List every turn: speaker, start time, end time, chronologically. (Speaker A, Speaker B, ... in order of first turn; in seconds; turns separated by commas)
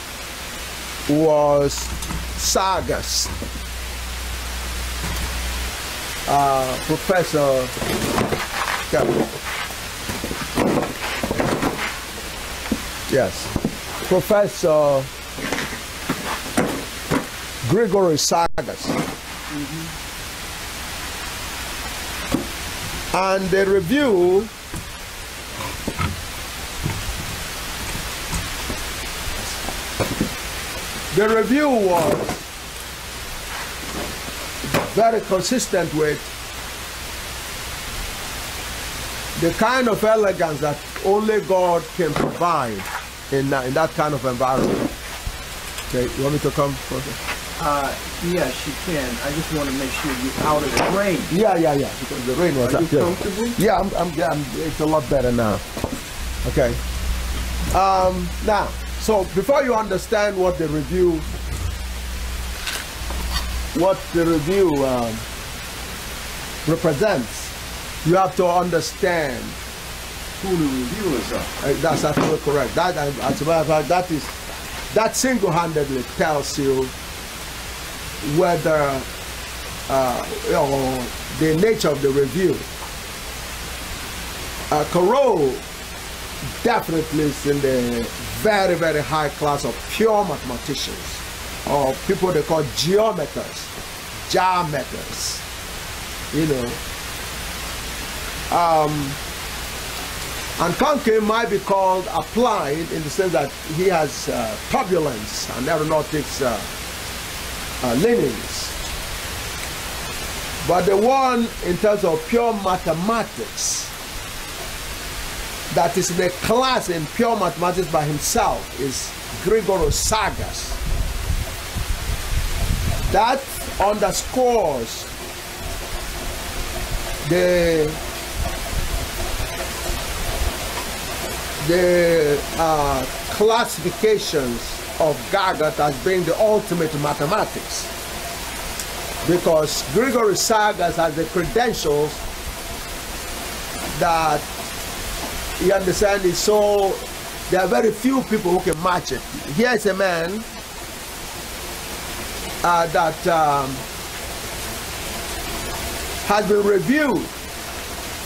Speaker A: 1.1-3.3, Speaker A: 6.3-7.7, Speaker A: 8.9-9.3, Speaker A: 13.1-13.5, Speaker A: 14.1-15.1, Speaker A: 17.6-19.0, Speaker B: 19.5-19.9, Speaker A: 23.1-24.5, Speaker A: 31.1-32.5, Speaker A: 34.7-36.2, Speaker A: 39.4-44.9, Speaker A: 45.9-47.2, Speaker B: 47.6-51.3, Speaker A: 51.3-55.6, Speaker B: 52.6-53.6, Speaker A: 56.4-56.8, Speaker A: 57.7-61.3, Speaker A: 63.7-65.3, Speaker A: 66.7-67.5, Speaker A: 68.0-69.6, Speaker B: 70.4-71.5, Speaker A: 71.6-74.3, Speaker A: 74.9-76.9, Speaker A: 78.2-79.1, Speaker A: 79.9-82.7, Speaker A: 84.7-85.6, Speaker A: 86.6-93.7, Speaker A: 94.3-95.5, Speaker A: 96.3-96.8, Speaker A: 98.5-99.2, Speaker A: 100.6-106.7, Speaker A: 107.8-108.8, Speaker A: 110.6-113.9, Speaker A: 115.7-120.8, Speaker A: 123.1-125.1, Speaker A: 127.2-128.0, Speaker A: 131.6-137.9, Speaker A: 139.2-142.2, Speaker A: 143.9-144.4, Speaker A: 145.6-150.4, Speaker A: 152.6-153.8, Speaker A: 156.2-157.3